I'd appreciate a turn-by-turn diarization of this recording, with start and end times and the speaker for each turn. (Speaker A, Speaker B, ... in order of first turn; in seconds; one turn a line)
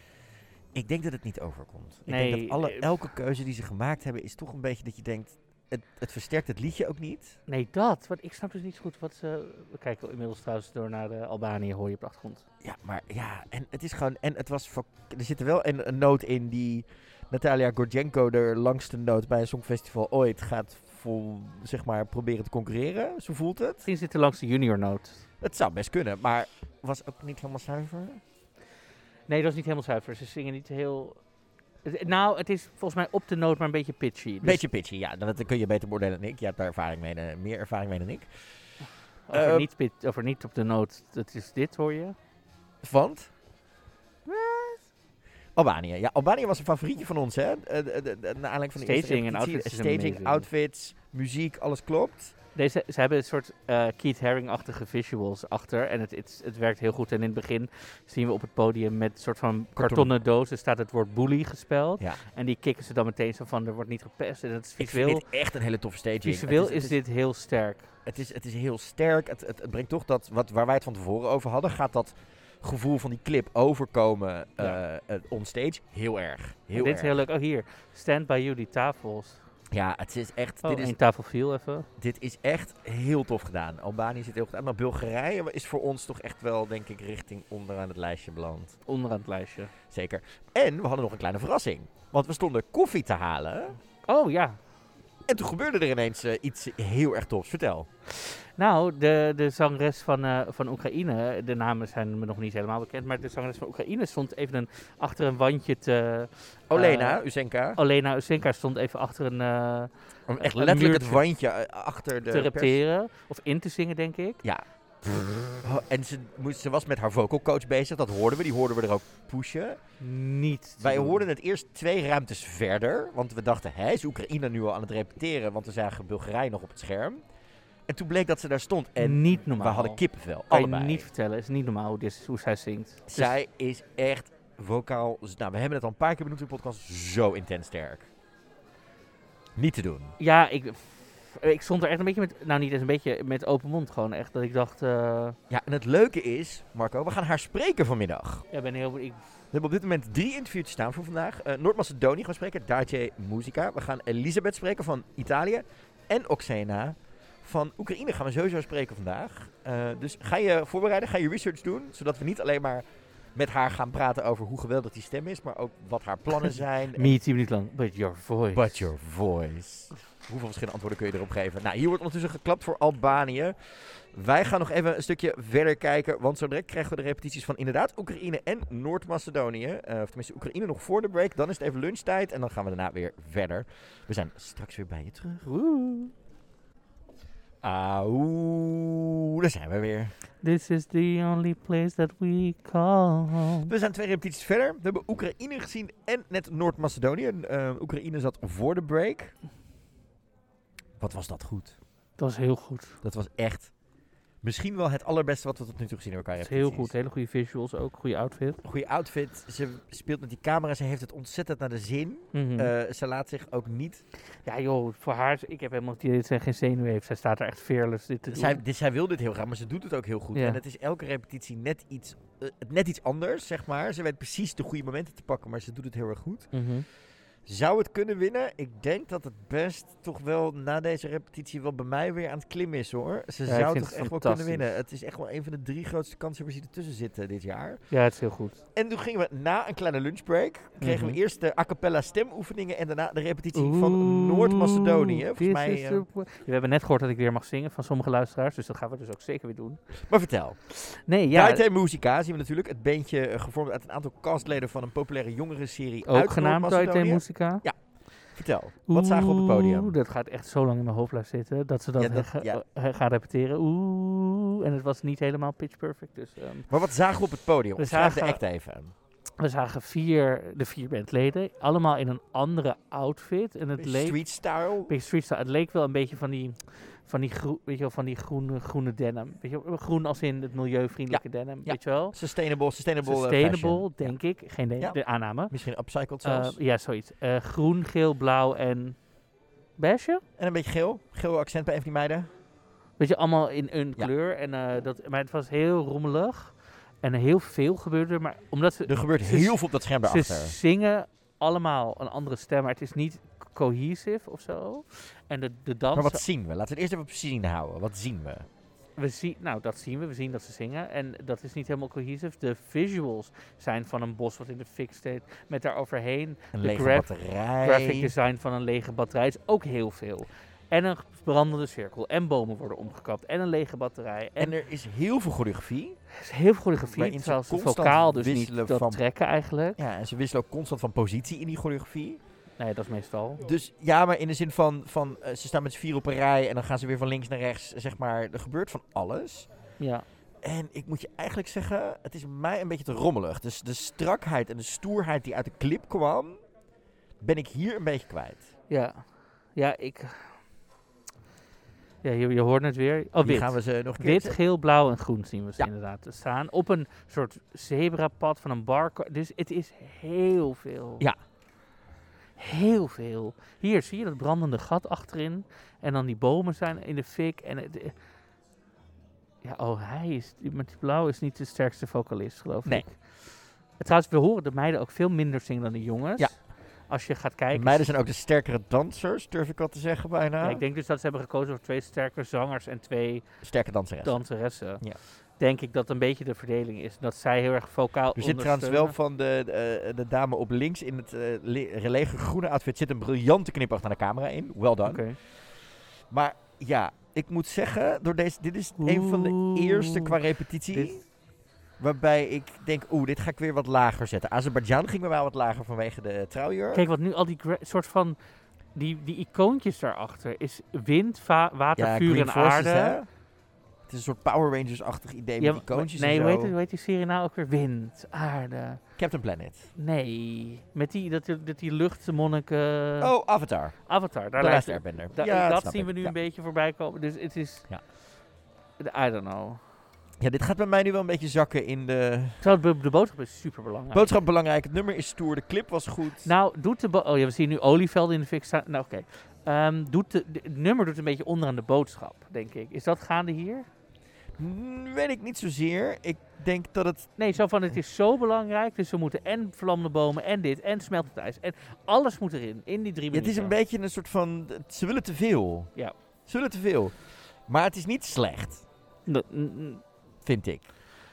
Speaker A: 0.7-7.4
Speaker B: 2.1-3.0
Speaker B: 7.5-12.4
Speaker A: 12.6-23.8
Speaker B: 23.8-25.2
Speaker A: 25.4-28.2
Speaker B: 29.3-31.2
Speaker B: 31.8-34.6
Speaker A: 34.4-38.3
Speaker B: 39.3-42.1
Speaker A: 39.3-39.7
Speaker A: 42.8-43.3
Speaker B: 44.3-44.7
Speaker A: 45.5-52.3
Speaker B: 48.8-50.5
Speaker B: 52.5-65.2
Speaker A: 59.8-60.1
Speaker A: 64.8-67.0
Speaker B: 66.2-67.9
Speaker A: 68.0-77.2
Speaker B: 76.7-79.4
Speaker A: 79.7-81.0
Speaker B: 80.6-81.9
Speaker A: 82.0-88.8
Speaker B: 88.9-89.7
Speaker A: 89.9-93.8
Speaker B: 94.0-94.6
Speaker A: 95.3-97.9
Speaker B: 98.1-107.2
Speaker A: 106.7-107.8
Speaker B: 107.8-111.2
Speaker A: 110.3-112.8
Speaker B: 112.3-114.4
Speaker A: 114.4-119.8
Speaker B: 120.0-121.2
Speaker A: 120.8-127.2
Speaker A: 127.9-131.1
Speaker B: 129.0-133.3
Speaker A: 133.1-138.1
Speaker A: 139.6-140.1
Speaker B: 140.2-145.4
Speaker A: 145.5-148.4
Speaker B: 148.5-149.2
Speaker A: 149.5-167.1
Speaker B: 166.5-168.9
Speaker A: 168.5-185.4
Speaker B: 185.4-186.1
Speaker A: 187.6-190.1
Speaker B: 190.4-193.7
Speaker A: 193.7-199.3
Speaker A: 201.0-201.8
Speaker B: 202.2-203.0
Speaker A: 203.0-203.7
Speaker A: 204.4-206.9
Speaker B: 206.4-208.6
Speaker A: 208.6-214.0
Speaker B: 212.3-212.7
Speaker B: 214.4-218.6
Speaker A: 218.3-226.5
Speaker B: 220.3-220.6
Speaker B: 226.5-226.9
Speaker A: 227.4-237.8
Speaker B: 233.5-234.7
Speaker B: 237.9-238.6
Speaker A: 238.7-246.0
Speaker B: 240.8-241.2
Speaker B: 243.5-249.8
Speaker A: 250.1-250.6
Speaker B: 250.7-251.7
Speaker A: 251.3-257.8
Speaker B: 256.1-257.6
Speaker A: 258.3-259.9
Speaker B: 258.9-266.7
Speaker A: 262.0-262.6
Speaker A: 266.7-268.9
Speaker B: 267.8-268.4
Speaker B: 269.4-274.2
Speaker A: 273.8-274.9
Speaker B: 274.9-282.2
Speaker A: 281.1-284.1
Speaker B: 283.0-285.5
Speaker A: 284.8-286.5
Speaker B: 286.2-289.0
Speaker B: 289.8-290.2
Speaker A: 290.4-292.3
Speaker B: 293.0-306.2
Speaker A: 298.9-300.5
Speaker A: 305.9-308.5
Speaker B: 308.9-317.1
Speaker A: 316.5-318.1
Speaker B: 317.6-324.5
Speaker A: 324.4-326.0
Speaker B: 326.1-329.8
Speaker A: 326.9-329.0
Speaker A: 329.8-332.2
Speaker B: 332.6-333.4
Speaker A: 333.4-339.5
Speaker B: 339.8-340.1
Speaker A: 340.4-346.4
Speaker A: 347.2-348.5
Speaker B: 348.7-350.4
Speaker B: 352.0-361.1
Speaker A: 353.2-354.4
Speaker B: 362.4-367.9
Speaker B: 369.4-377.9
Speaker A: 377.5-380.6
Speaker B: 380.4-383.2
Speaker A: 383.4-384.2
Speaker B: 384.0-384.8
Speaker B: 385.4-388.9
Speaker A: 388.1-395.1
Speaker B: 394.8-395.2
Speaker A: 396.1-401.0
Speaker B: 398.8-400.2
Speaker B: 400.7-401.0
Speaker A: 401.8-406.9
Speaker B: 406.7-408.2
Speaker B: 408.7-413.0
Speaker A: 411.8-413.1
Speaker A: 413.9-416.5
Speaker B: 415.4-418.8
Speaker A: 419.0-419.7
Speaker B: 419.8-423.1
Speaker A: 423.0-423.8
Speaker B: 423.9-427.7
Speaker A: 424.4-426.1
Speaker B: 428.8-429.6
Speaker A: 430.2-432.4
Speaker B: 432.4-434.1
Speaker A: 433.9-436.3
Speaker B: 436.2-443.7
Speaker A: 444.4-447.1
Speaker B: 447.2-453.5
Speaker A: 453.1-455.7
Speaker A: 456.2-458.6
Speaker B: 459.1-459.8
Speaker A: 460.2-460.6